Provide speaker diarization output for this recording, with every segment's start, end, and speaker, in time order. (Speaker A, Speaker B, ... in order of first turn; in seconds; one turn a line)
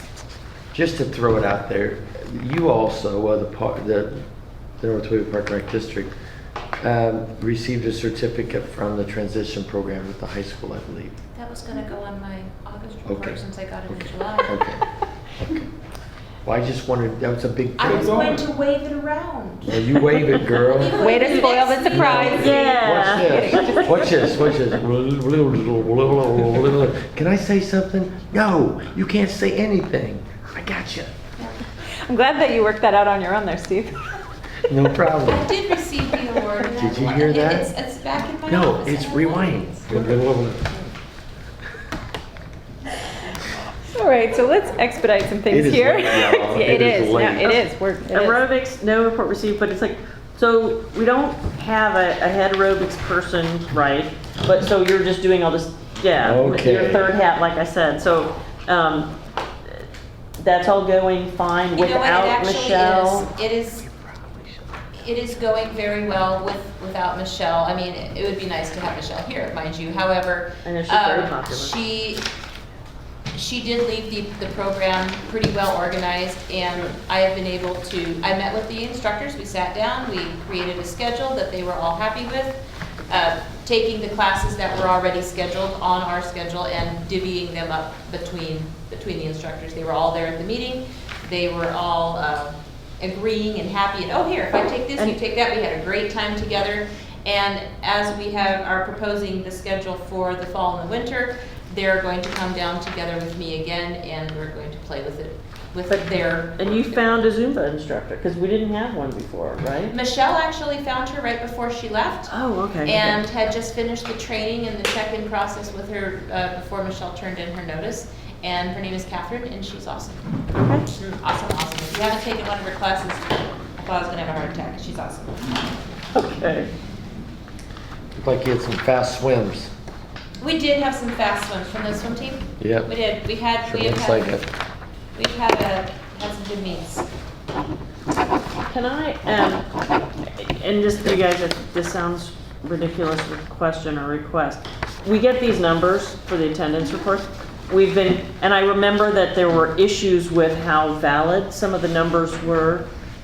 Speaker A: 0.7-4.2
Speaker A: 4.8-6.1
Speaker A: 6.8-11.2
Speaker B: 11.3-14.6
Speaker A: 13.1-13.4
Speaker A: 13.9-14.9
Speaker A: 15.4-15.7
Speaker A: 16.4-18.4
Speaker B: 17.8-19.8
Speaker A: 19.7-21.4
Speaker C: 20.1-20.6
Speaker B: 20.7-23.8
Speaker D: 20.9-24.5
Speaker A: 21.9-31.2
Speaker C: 22.3-23.8
Speaker D: 32.1-34.2
Speaker A: 34.7-35.5
Speaker B: 35.3-40.1
Speaker A: 36.8-37.7
Speaker A: 38.5-40.8
Speaker D: 43.9-48.4
Speaker A: 45.5-47.6
Speaker C: 47.4-59.1
Speaker A: 56.2-57.1
Speaker C: 60.4-63.3
Speaker B: 61.8-63.9
Speaker A: 64.1-64.4
Speaker B: 65.0-72.2
Speaker C: 70.7-71.8
Speaker B: 73.3-107.0
Speaker C: 105.9-109.9
Speaker B: 109.9-120.2
Speaker C: 112.3-113.2
Speaker C: 120.6-120.9
Speaker B: 121.2-125.4
Speaker C: 126.2-126.7
Speaker A: 128.2-129.7
Speaker B: 130.4-134.4
Speaker A: 132.6-132.9
Speaker A: 133.6-134.5
Speaker B: 135.2-137.1
Speaker C: 138.7-139.7
Speaker C: 140.3-152.9